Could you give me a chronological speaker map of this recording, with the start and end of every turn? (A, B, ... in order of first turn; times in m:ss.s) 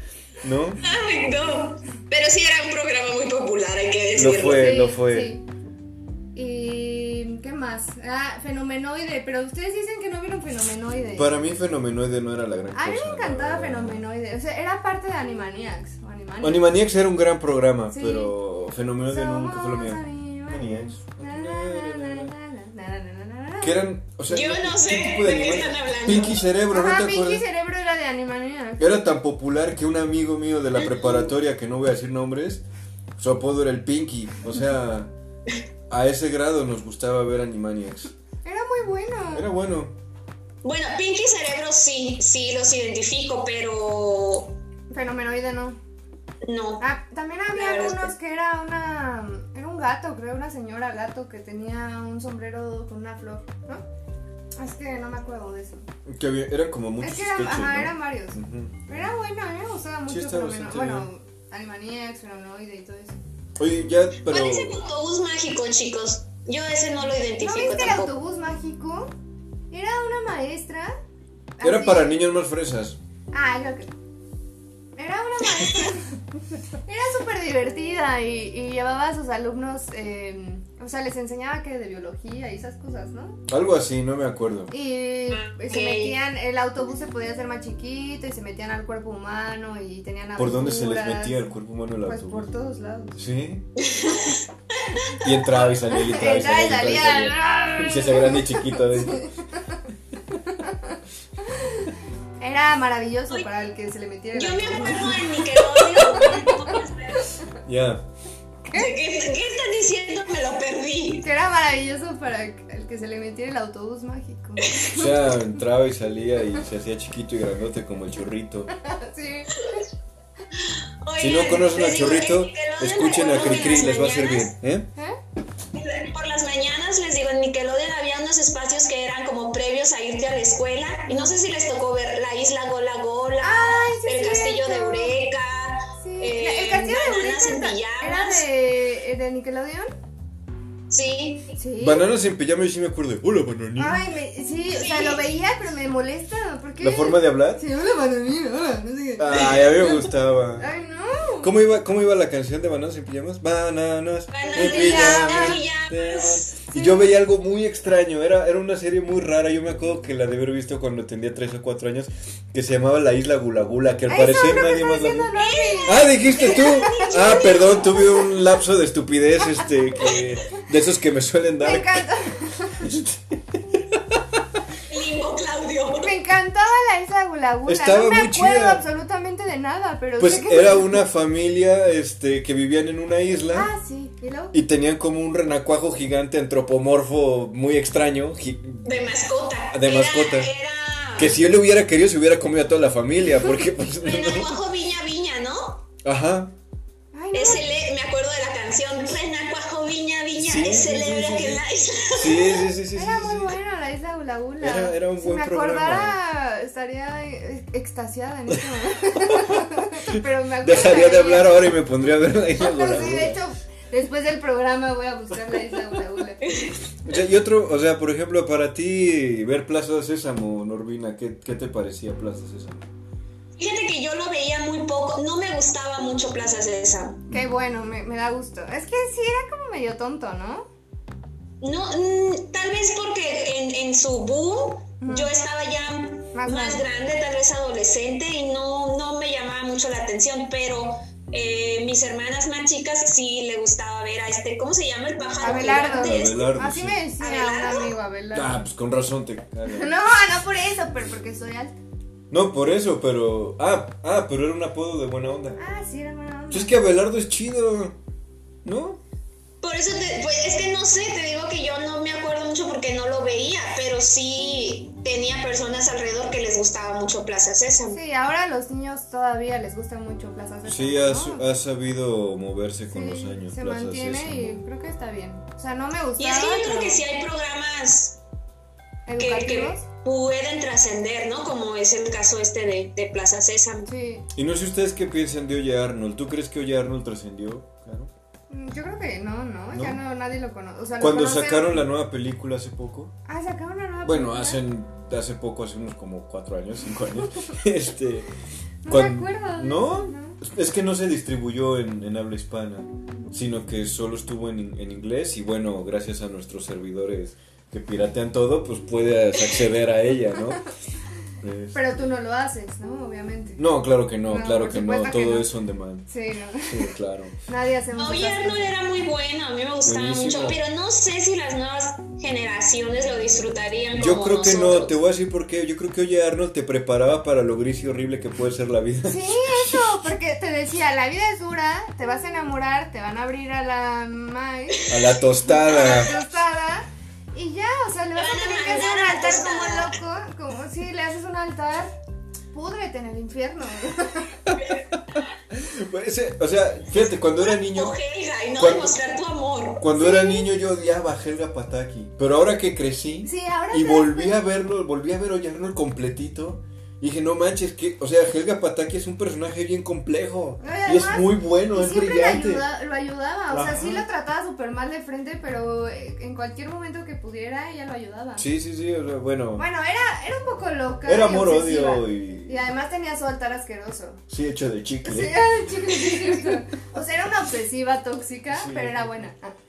0:00.4-0:00.8 A
0:00.8-0:04.7 B
0:04.1-0:05.3 A
0:04.4-0:05.4 C
0:06.4-0:11.4 C
0:11.2-0:14.0 A
0:12.7-0:16.6 C
0:16.4-0:22.3 A
0:17.9-0:18.3 C
0:19.1-0:23.8 C
0:23.6-0:27.4 A
0:24.3-0:26.4 B
0:26.7-0:28.9 C
0:28.8-0:32.6 A
0:33.2-0:35.1 A
0:35.9-0:38.1 A
0:38.4-0:39.5 C
0:39.3-0:39.9 A
0:40.6-0:44.6 B
0:44.9-0:45.8 C
0:46.4-0:46.8 B
0:46.8-0:53.8 C
0:47.5-0:48.1 B
0:54.6-0:55.9 C
0:56.1-0:59.1 A
0:57.0-1:03.2 C
1:00.1-1:01.1 A
1:03.6-1:04.8 A
1:04.2-1:08.1 B
1:07.4-1:09.1 C
1:09.7-1:10.9 C
1:11.6-1:12.2 C
1:11.6-1:13.0 A
1:13.3-1:13.9 C
1:15.0-1:16.1 C
1:16.9-1:23.4 C
1:23.5-1:24.7 A
1:24.7-1:31.4 C
1:25.3-1:26.2 B
1:30.4-1:32.5 A
1:32.0-1:33.2 C
1:33.1-1:33.6 A
1:33.8-1:35.3 B
1:35.2-1:39.2 A
1:35.9-1:39.8 C
1:40.4-1:46.8 C
1:44.3-1:47.4 B
1:47.6-1:48.0 A
1:48.7-1:48.9 C
1:48.7-1:51.3 B
1:51.2-1:55.4 C
1:54.9-1:58.7 A
1:58.7-1:59.8 C
2:00.6-2:04.5 B
2:01.2-2:04.9 A
2:03.4-2:03.9 C
2:05.7-2:18.5 B
2:11.1-2:11.4 C
2:13.4-2:15.1 C
2:16.0-2:19.9 C
2:20.9-2:21.6 B
2:21.6-2:22.0 C
2:21.8-2:24.0 A
2:23.8-2:29.6 C
2:24.7-2:25.3 B
2:26.8-2:27.6 A
2:29.2-2:30.7 A
2:29.4-2:30.0 B
2:30.6-2:31.5 C
2:31.4-2:45.3 A
2:34.3-2:36.6 B
2:34.5-2:35.6 C
2:36.7-2:37.1 C
2:44.1-2:48.0 C
2:45.4-2:48.2 B
2:45.9-2:52.1 A
2:51.6-2:52.9 C
2:52.8-2:54.6 A
2:54.9-2:56.1 B
2:56.0-3:01.0 C
2:57.6-2:58.8 A
3:00.2-3:03.7 A
3:03.5-3:04.6 C
3:04.5-3:09.0 A
3:08.8-3:11.4 B
3:09.7-3:10.5 A
3:11.2-3:14.6 A
3:14.0-3:15.8 B
3:16.0-3:16.5 A
3:17.1-3:17.7 C
3:17.3-3:22.7 B
3:20.4-3:21.6 A
3:22.1-3:23.5 A
3:22.9-3:31.6 C
3:24.6-3:26.2 A
3:30.6-3:33.4 A
3:32.6-3:36.5 C
3:36.4-3:36.8 B
3:37.1-3:42.9 A
3:43.6-3:47.3 B
3:47.3-3:50.7 C
3:51.6-4:06.5 B
3:55.0-3:55.3 C
3:56.3-3:56.8 C
4:05.4-4:08.6 C
4:05.9-4:07.0 A
4:07.2-4:07.9 B
4:08.3-4:09.9 A
4:09.7-4:11.8 C
4:12.3-4:15.6 A
4:15.6-4:16.8 C
4:16.5-4:18.0 A
4:18.6-4:19.0 A
4:19.6-4:28.0 B
4:27.9-4:31.5 C
4:30.6-4:34.6 A
4:32.9-4:37.0 C
4:36.2-4:38.2 B
4:39.1-4:39.8 C
4:39.2-4:43.9 B
4:43.8-4:44.2 C
4:44.3-4:48.1 A
4:48.5-4:51.8 C
4:49.7-4:50.0 A
4:51.0-4:53.1 A
4:53.3-4:54.6 C
4:54.0-4:58.3 A
4:58.8-5:00.4 C
4:58.9-5:10.6 A
5:11.4-5:11.9 A
5:11.7-5:13.6 C
5:13.6-5:16.1 A
5:14.3-5:15.5 C
5:16.1-5:16.9 C
5:16.6-5:17.4 A
5:17.5-5:18.7 C
5:17.9-5:25.0 B
5:19.8-5:20.6 A
5:24.0-5:29.9 A
5:29.1-5:34.9 C
5:34.8-5:35.1 B
5:34.9-5:36.2 A
5:35.4-5:41.9 C
5:38.2-5:40.0 B
5:42.5-5:44.5 C
5:45.2-5:48.0 A
5:47.4-5:49.8 B
5:48.6-5:49.0 A
5:49.8-6:02.6 A
5:49.9-5:50.5 C
5:53.2-5:54.4 C
6:00.6-6:08.5 C
6:03.5-6:04.1 A
6:08.4-6:09.6 A
6:09.6-6:14.2 C
6:11.1-6:12.6 A
6:14.3-6:15.4 A
6:15.1-6:19.6 C
6:18.5-6:19.1 A